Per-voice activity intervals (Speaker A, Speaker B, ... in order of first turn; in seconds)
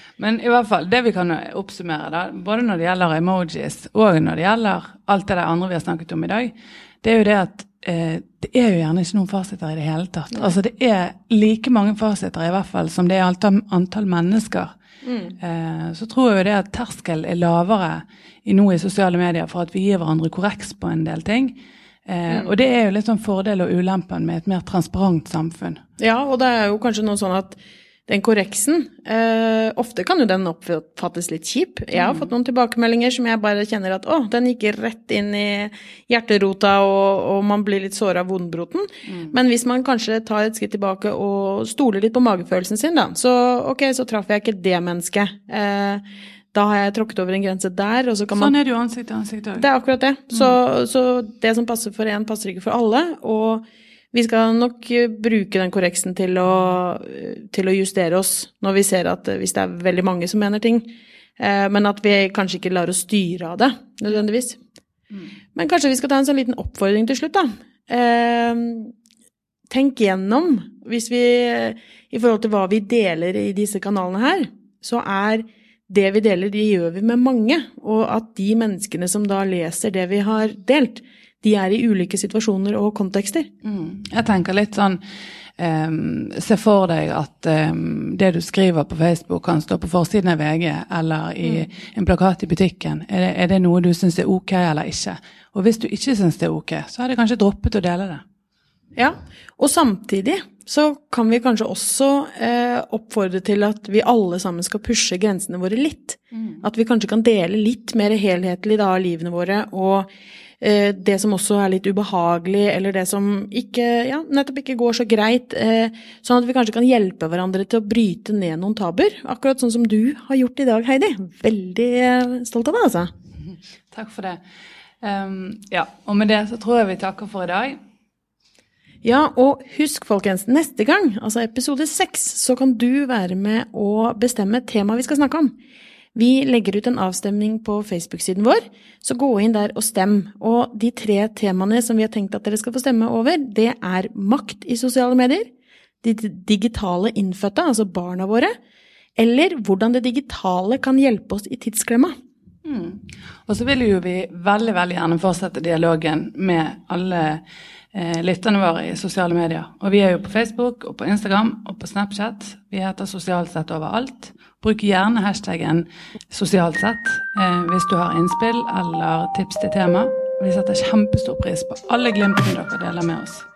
Speaker A: 0.2-14.7, 15.4-25.8, 31.9-32.3, 39.1-39.3, 48.4-49.7, 83.6-85.0, 85.6-98.2, 123.5-124.4, 125.0-127.8, 152.6-173.5
Speaker B: 15.1-15.3, 26.0-48.5, 49.6-64.6, 65.5-68.9, 69.7-83.5, 99.0-110.1, 110.6-123.1, 129.0-135.6, 136.2-145.5, 146.0-148.5, 149.2-152.2